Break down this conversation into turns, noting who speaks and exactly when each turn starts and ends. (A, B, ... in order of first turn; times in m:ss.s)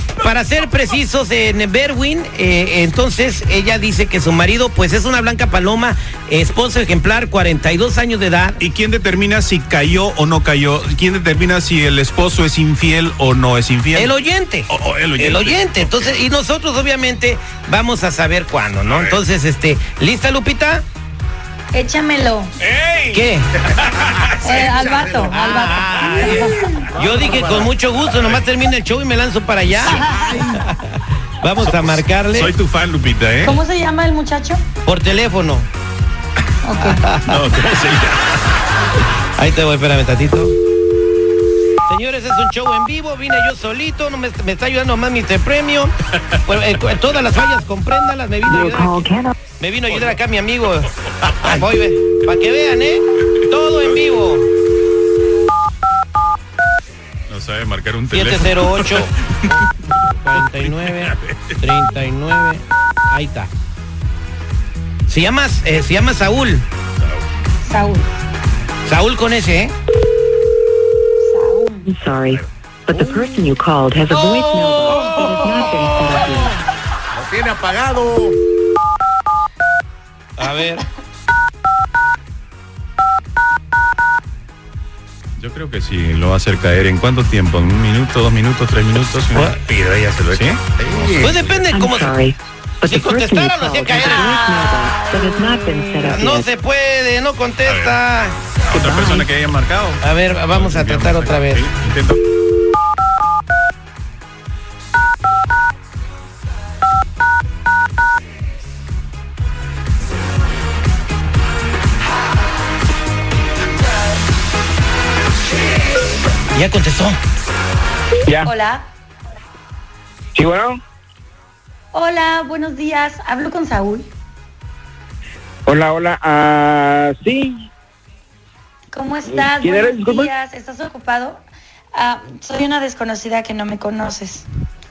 0:00.2-0:08.6 A
0:08.6-0:14.1 B
0:13.9-0:20.8 A
0:14.7-0:16.2 B
0:18.8-0:19.2 B
0:21.7-0:22.5 C
0:22.6-0:24.7 B
0:23.1-0:23.4 A
0:24.4-0:26.6 C
0:25.3-0:32.5 A
0:27.0-0:27.7 D
0:28.0-0:28.4 B
0:29.8-0:30.6 C
0:31.6-0:33.6 B
0:33.4-0:34.6 C
0:34.8-0:35.7 A
0:36.6-0:37.0 C
0:36.8-0:37.5 A
0:37.3-0:38.3 B
0:39.4-0:40.5 A
0:41.9-0:45.9 A
0:46.4-0:50.9 A
0:48.5-0:49.3 E
0:51.4-0:54.4 A
0:57.3-0:59.0 B
0:58.1-0:59.7 A
1:00.2-1:03.5 A
1:00.3-1:01.6 B
1:05.1-1:06.6 A
1:07.0-1:07.2 B
1:07.6-1:08.1 C
1:08.8-1:09.7 A
1:11.2-1:11.9 C
1:11.8-1:16.5 E
1:14.1-1:15.9 C
1:17.2-1:18.3 D
1:20.4-1:20.8 A
1:25.4-1:31.8 B
1:30.8-1:31.4 D
1:31.2-1:32.1 A
1:31.7-1:36.5 E
1:32.8-1:34.5 A
1:34.0-1:36.4 C
1:36.1-1:38.3 A
1:37.6-1:38.0 B
1:38.7-1:42.2 B
1:38.7-1:39.3 E
1:40.0-1:41.7 A
1:56.5-1:57.2 A
1:58.4-1:58.8 C
2:00.3-2:00.8 F
2:01.9-2:04.1 C
2:05.7-2:07.7 F
2:08.9-2:11.4 C
2:09.3-2:10.3 F
2:11.9-2:14.4 C